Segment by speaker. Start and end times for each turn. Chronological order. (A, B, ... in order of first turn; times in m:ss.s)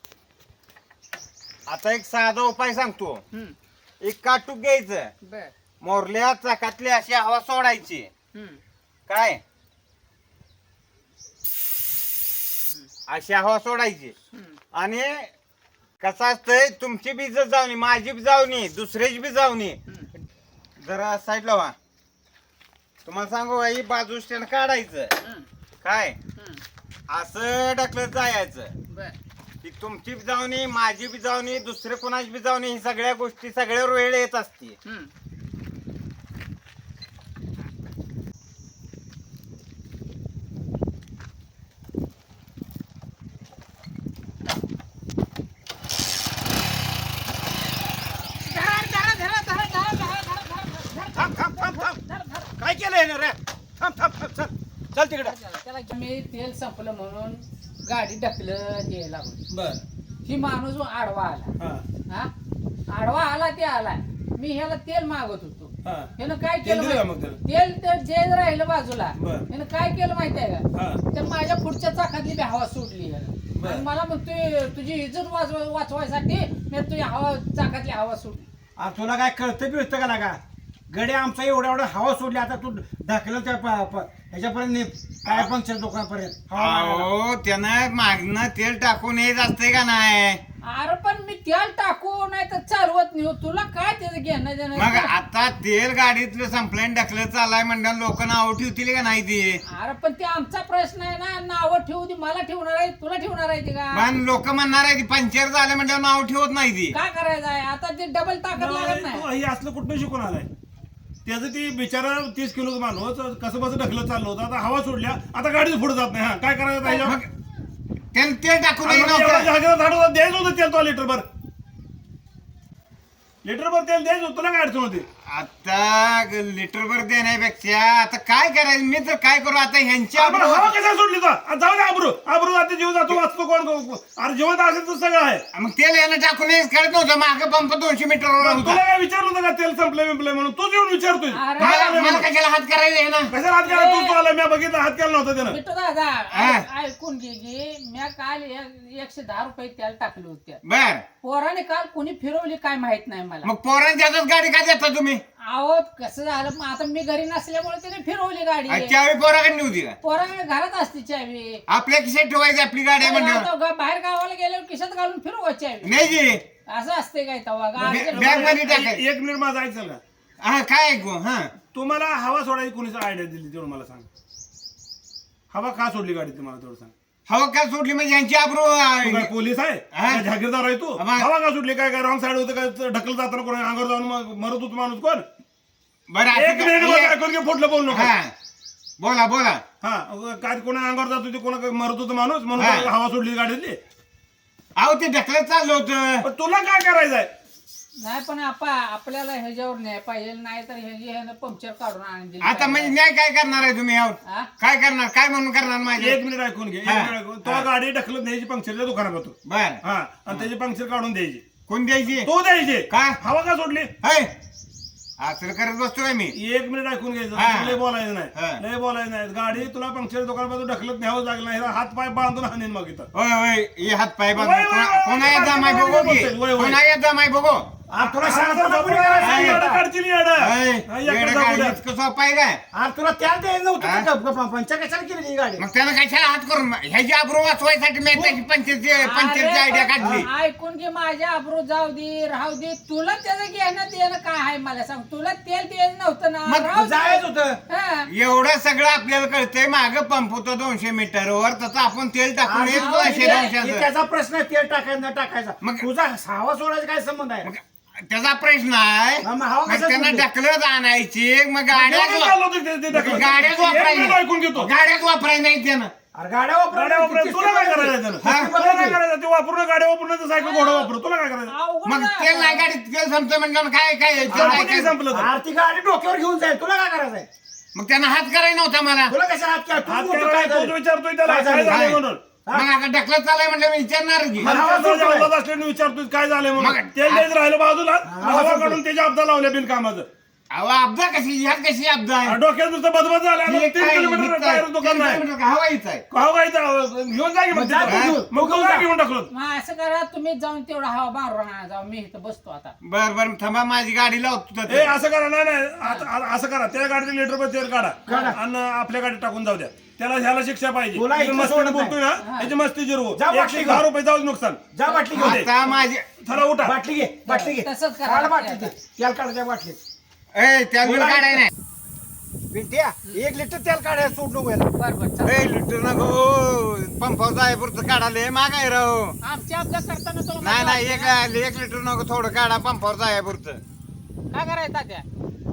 0:01.7-0:03.2 A
0:04.0-0:05.1 A
0:05.2-0:05.5 B
0:05.8-0:08.1 A
0:08.3-0:08.6 B
0:09.1-0:09.4 A
0:13.1-0:14.1 A
0:14.7-0:15.3 A
0:16.0-0:19.8 A
0:19.9-0:20.1 B
0:20.8-0:21.7 A
0:23.0-0:25.2 A
0:25.2-0:25.4 B
0:25.8-0:26.2 A
0:26.4-0:26.6 B
0:27.1-0:28.7 A
0:28.9-0:29.1 B
0:29.6-0:34.8 A
0:48.4-0:52.5 B
0:51.1-0:52.0 C
0:52.6-0:55.3 C
0:55.2-0:59.4 B
0:59.5-0:59.8 D
1:00.2-1:01.5 B
1:01.6-1:01.8 D
1:02.9-1:18.4 B
1:05.8-1:06.1 D
1:06.6-1:07.4 D
1:09.2-1:09.4 D
1:10.7-1:11.0 D
1:13.6-1:13.8 D
1:18.8-1:27.1 C
1:25.2-1:25.5 A
1:26.6-1:30.4 A
1:30.6-1:35.1 B
1:34.7-1:39.6 A
1:39.7-1:44.1 B
1:43.9-1:47.0 A
1:46.9-1:49.3 B
1:48.6-1:50.5 D
1:51.2-1:57.2 D
1:56.8-1:57.1 B
1:58.1-1:59.5 A
1:58.8-2:01.2 D
2:03.4-2:05.1 D
2:05.2-2:10.7 A
2:10.1-2:15.4 D
2:15.5-2:18.8 A
2:18.4-2:22.3 D
2:21.3-2:22.2 B
2:21.6-2:23.3 A
2:23.3-2:25.6 D
2:23.6-2:24.2 B
2:25.4-2:30.6 B
2:26.3-2:26.6 A
2:30.6-2:31.0 A
2:31.2-2:33.5 B
2:33.4-2:35.2 A
2:35.4-2:38.9 B
2:38.7-2:40.0 A
2:40.0-2:41.6 B
2:41.7-2:43.5 A
2:43.0-2:46.1 B
2:45.8-2:46.4 A
2:46.7-2:48.5 B
2:47.8-2:50.0 D
2:47.8-2:49.0 A
2:50.4-2:51.5 A
2:51.7-2:54.1 D
2:55.5-2:56.9 D
2:57.3-2:59.3 A
2:59.0-3:05.2 D
2:59.9-3:00.2 A
3:01.0-3:01.3 A
3:06.1-3:07.2 A
3:06.3-3:08.1 D
3:07.9-3:08.3 A
3:09.0-3:09.6 A
3:09.8-3:13.8 D
3:12.6-3:12.9 A
3:14.8-3:16.3 A
3:16.2-3:17.3 D
3:18.0-3:23.0 B
3:22.4-3:26.2 A
3:24.2-3:24.5 B
3:26.0-3:31.4 D
3:26.8-3:27.7 A
3:29.4-3:30.4 A
3:31.7-3:32.3 A
3:32.2-3:33.9 D
3:32.9-3:33.2 A
3:34.0-3:34.3 A
3:35.2-3:36.3 A
3:36.3-3:43.1 D
3:37.4-3:37.8 A
3:38.3-3:38.6 A
3:43.1-3:47.7 A
3:44.3-3:46.8 D
3:47.9-3:49.8 C
3:48.0-3:51.8 D
3:49.2-3:49.6 A
3:50.4-3:52.6 A
3:52.7-3:55.6 C
3:53.8-3:54.1 A
3:55.6-4:00.3 A
3:58.1-3:58.4 C
3:59.0-4:08.1 B
4:00.0-4:00.2 C
4:06.4-4:06.7 A
4:06.7-4:07.6 C
4:08.1-4:13.9 A
4:12.4-4:17.5 C
4:12.7-4:13.5 B
4:15.6-4:15.9 A
4:17.4-4:22.4 A
4:19.2-4:20.2 C
4:21.7-4:24.7 D
4:22.9-4:25.9 A
4:22.9-4:23.2 C
4:26.1-4:29.0 C
4:26.7-4:31.5 D
4:28.2-4:28.5 A
4:30.3-4:30.9 B
4:31.5-4:32.6 B
4:31.8-4:35.0 A
4:34.3-4:37.3 C
4:34.3-4:35.3 D
4:37.7-4:39.1 A
4:39.1-4:41.8 C
4:39.8-4:42.2 D
4:41.7-4:42.0 A
4:42.5-4:44.5 A
4:44.4-4:45.3 C
4:44.4-4:50.1 D
4:46.6-4:47.3 A
4:48.0-4:48.8 C
4:50.5-4:52.4 A
4:52.2-4:55.2 D
4:53.4-4:56.0 A
4:56.1-4:59.3 D
4:57.5-4:58.9 C
4:57.8-4:58.2 A
4:59.3-5:02.7 B
5:02.8-5:04.9 A
5:04.7-5:15.5 D
5:08.1-5:08.3 B
5:08.1-5:08.4 C
5:10.9-5:12.0 C
5:12.2-5:12.5 B
5:13.1-5:13.8 C
5:14.7-5:15.5 C
5:15.1-5:16.1 A
5:16.2-5:16.8 D
5:16.6-5:19.8 C
5:17.2-5:18.7 B
5:20.3-5:21.5 A
5:20.8-5:21.5 C
5:22.5-5:24.7 C
5:24.8-5:25.4 B
5:25.2-5:29.2 A
5:29.2-5:31.1 B
5:30.4-5:33.6 A
5:34.3-5:35.0 B